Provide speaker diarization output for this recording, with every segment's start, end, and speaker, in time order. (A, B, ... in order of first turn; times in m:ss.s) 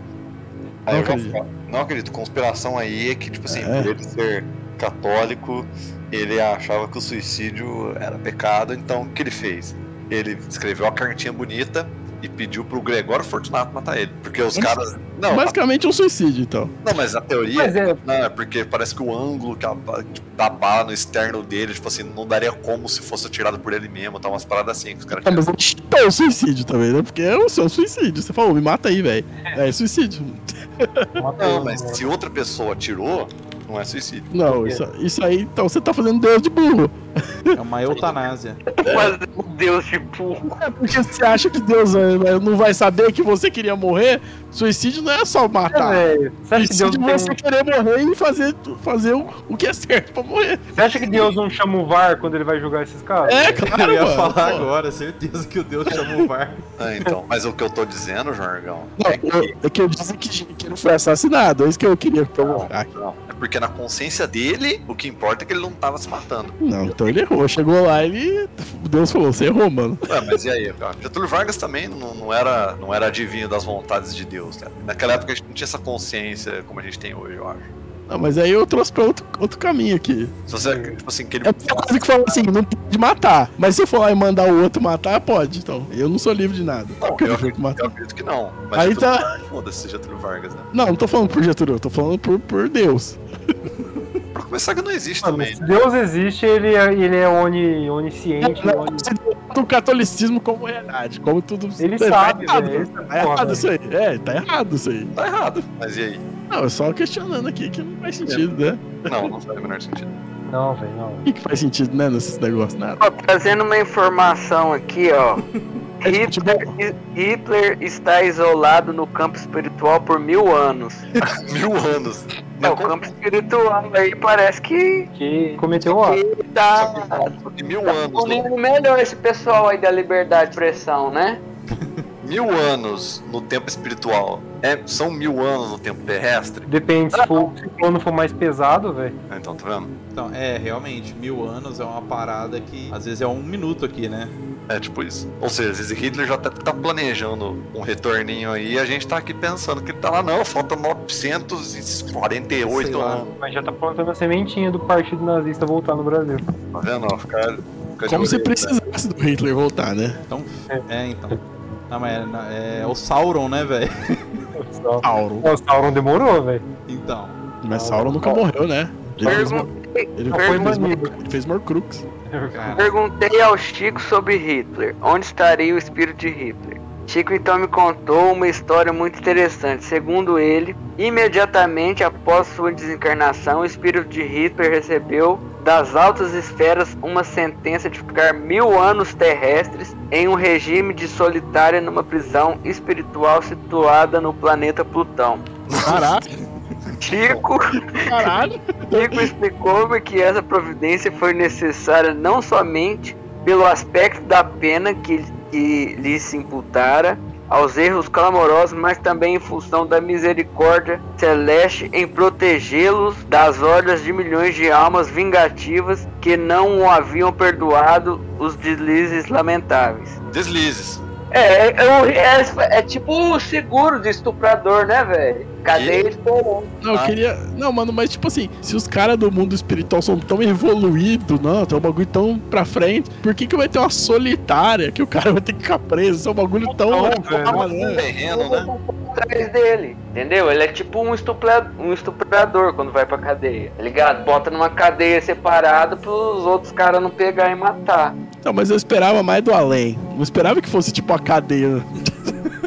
0:00.8-0:15.5 A
0:00.9-0:01.4 B
0:03.5-0:03.9 B
0:15.3-0:16.7 B
0:16.8-0:25.4 A
0:17.6-0:18.0 C
0:25.2-0:31.1 B
0:31.2-0:32.0 C
0:31.4-0:34.3 A
0:34.3-0:37.6 B
0:34.4-0:34.8 C
0:37.5-0:38.6 D
0:38.7-0:40.6 E
0:38.8-0:39.2 A
0:40.6-0:50.6 B
0:45.7-0:47.4 C
0:50.7-0:53.7 C
0:50.9-0:51.3 A
0:53.2-0:54.7 B
0:53.7-0:56.6 D
0:56.8-0:59.5 A
0:59.0-1:03.0 B
1:02.4-1:06.6 A
1:06.6-1:10.0 B
1:10.1-1:17.7 A
1:18.1-1:20.4 B
1:20.5-1:22.4 A
1:20.6-1:21.0 C
1:21.4-1:27.9 B
1:27.0-1:30.7 A
1:28.7-1:29.3 B
1:30.7-1:33.2 B
1:34.3-1:35.8 A
1:35.2-1:39.1 C
1:38.4-1:45.1 B
1:41.8-1:43.6 C
1:45.1-1:46.2 A
1:46.5-1:49.3 B
1:49.0-1:50.2 A
1:50.4-1:51.2 C
1:51.2-1:53.0 B
1:53.0-1:55.4 E
1:56.0-1:56.8 B
1:56.0-2:01.0 E
2:01.3-2:03.1 A
2:02.6-2:05.1 E
2:05.1-2:06.2 C
2:05.8-2:07.3 E
2:06.7-2:08.4 A
2:08.1-2:11.4 E
2:12.2-2:16.6 A
2:16.6-2:19.2 C
2:17.1-2:17.5 E
2:19.3-2:19.9 A
2:20.1-2:24.3 D
2:24.7-2:33.4 A
2:32.6-2:33.2 D
2:33.4-2:36.4 C
2:36.7-2:38.7 A
2:38.1-2:40.2 B
2:40.3-2:44.4 D
2:40.7-2:41.4 C
2:44.6-2:46.6 C
2:45.0-2:45.5 B
2:46.8-2:47.4 D
2:47.6-2:52.0 B
2:47.7-2:48.4 C
2:49.1-2:49.7 C
2:49.2-2:50.9 E
2:50.3-2:51.2 C
2:52.2-2:52.9 C
2:52.5-2:52.9 D
2:52.8-3:15.4 E
3:15.7-3:16.1 A
3:15.8-3:16.2 B
3:17.0-3:18.3 E
3:17.9-3:19.3 B
3:18.9-3:40.2 E
3:40.3-3:41.0 A
3:41.3-3:46.7 E
3:45.7-3:46.1 A
3:46.8-3:58.0 B
3:46.9-3:47.2 A
3:56.8-3:57.6 C
3:57.2-3:58.7 A
3:58.3-4:08.2 E
4:08.4-4:12.3 B